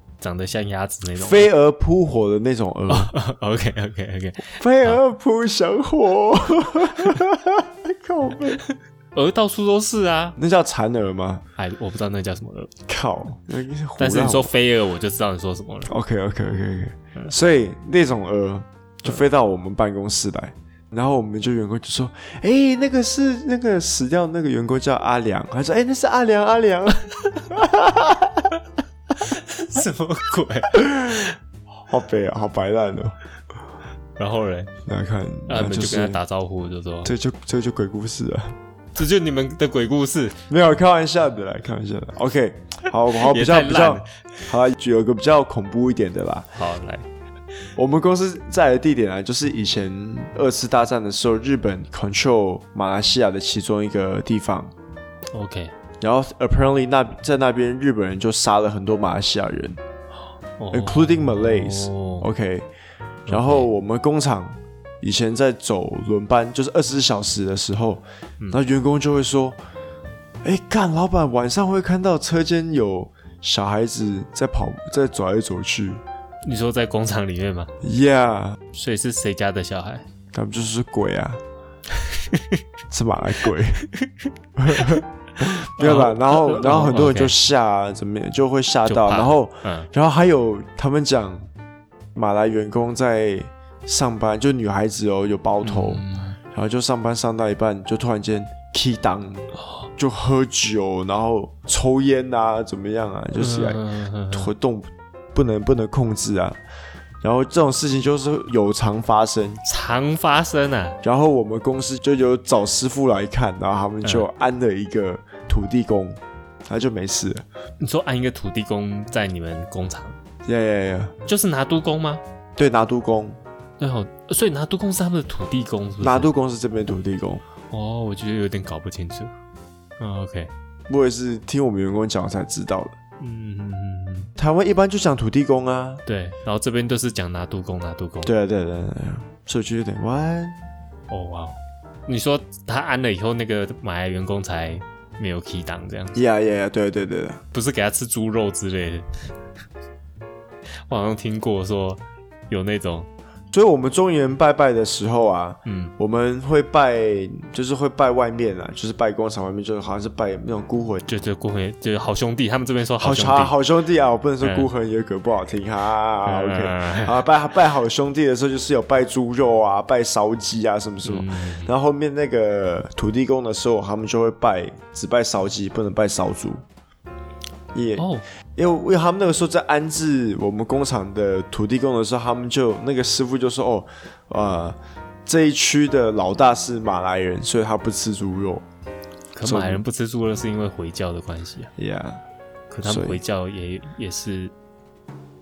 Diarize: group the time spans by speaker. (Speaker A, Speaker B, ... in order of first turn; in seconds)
Speaker A: 0.2-1.5, 2.9-5.0, 9.2-10.4, 11.6-12.7, 14.0-15.9, 29.2-31.3, 34.2-34.7, 35.5-37.1, 39.0-40.4, 43.1-44.5, 46.6-47.1, 55.3-55.7, 60.6-62.3, 63.3-63.7, 76.5-77.7, 78.7-80.1, 82.0-82.6, 84.7-85.0, 85.8-87.4, 88.9-89.9, 95.6-96.4, 103.4-104.5, 109.7-111.0, 117.8-120.2, 121.3-122.2, 123.8-126.3, 127.7-129.3, 130.0-130.5, 133.2-134.3, 136.1-138.3, 141.1-146.2, 147.5-149.1, 150.9-153.1, 155.7-155.9, 161.1-163.5, 164.4-164.7, 166.2-167.2, 171.0-171.7, 178.0-178.2, 189.3-191.7, 192.7-194.5
Speaker B: 1.2-3.1, 4.5-8.6, 10.4-11.4, 12.9-14.5, 15.9-28.5, 30.8-31.3, 31.9-33.2, 34.9-36.2, 37.0-38.6, 40.5-46.5, 47.8-54.7, 56.0-59.8, 60.7-62.7, 63.3-69.6, 70.4-76.0, 77.8-78.6, 80.3-81.4, 82.9-83.9, 84.6-91.5, 92.2-106.6, 107.2-109.6, 111.0-117.5, 120.5-121.1, 122.6-123.4, 126.0-127.4, 130.9-132.9, 134.4-136.0, 138.2-140.6, 146.2-147.4, 153.5-161.0, 163.0-176.6, 177.7-188.7, 189.4-189.8, 191.8-192.2, 192.8-193.2